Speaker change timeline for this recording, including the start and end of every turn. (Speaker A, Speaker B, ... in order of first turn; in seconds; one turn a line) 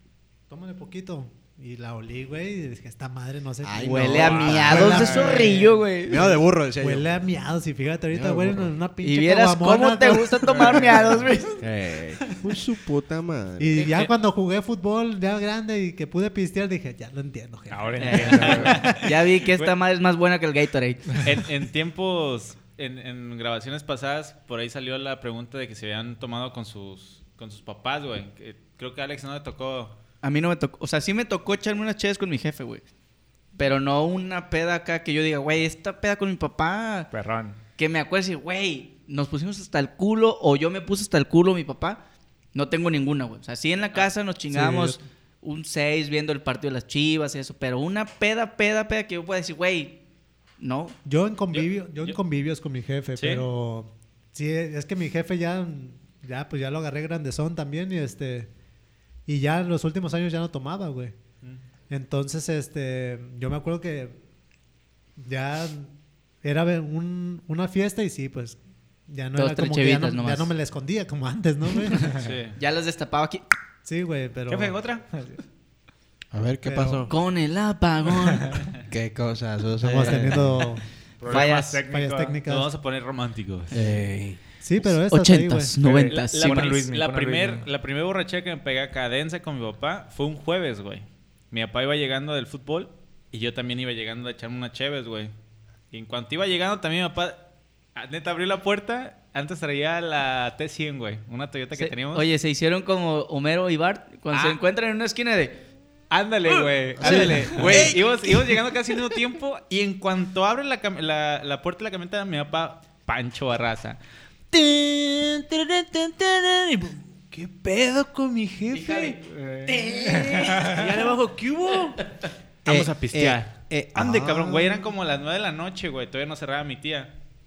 Speaker A: 0.5-11.3
Speaker B: 3.6-5.5
Speaker C: 3.8-6.3
Speaker B: 6.1-7.2
Speaker B: 8.1-8.7
Speaker C: 9.0-11.6
Speaker B: 11.6-13.8
Speaker A: 13.6-19.1
Speaker D: 13.8-14.1
Speaker E: 17.7-18.9
Speaker C: 18.0-21.4
Speaker D: 18.4-19.8
Speaker D: 21.2-29.9
Speaker C: 30.2-32.9
Speaker C: 33.5-37.1
Speaker E: 37.1-37.6
Speaker C: 37.8-42.0
Speaker C: 42.5-50.0
Speaker A: 44.5-45.0
Speaker C: 50.6-51.0
Speaker A: 51.0-58.5
Speaker D: 51.5-52.2
Speaker D: 53.2-53.5
Speaker A: 59.3-61.1
Speaker A: 61.9-64.2
Speaker A: 65.2-72.2
Speaker C: 69.4-70.5
Speaker C: 72.1-73.4
Speaker D: 72.1-72.6
Speaker A: 73.8-74.8
Speaker D: 74.5-75.0
Speaker E: 74.5-75.4
Speaker B: 76.3-77.1
Speaker A: 76.6-77.1
Speaker C: 77.1-78.7
Speaker B: 78.9-80.7
Speaker A: 79.8-82.7
Speaker E: 81.2-82.4
Speaker C: 81.3-81.8
Speaker D: 82.5-83.8
Speaker B: 83.7-84.4
Speaker A: 84.6-86.2
Speaker C: 85.0-86.7
Speaker D: 86.0-95.3
Speaker E: 86.1-87.7
Speaker D: 95.9-97.4
Speaker D: 98.0-102.2
Speaker C: 101.8-105.6
Speaker D: 104.3-104.6
Speaker D: 106.1-114.0
Speaker B: 107.0-108.3
Speaker C: 107.0-107.7
Speaker D: 114.5-119.2
Speaker C: 118.7-121.1
Speaker E: 119.2-120.6
Speaker D: 120.0-122.0
Speaker D: 122.6-127.1
Speaker B: 122.7-124.8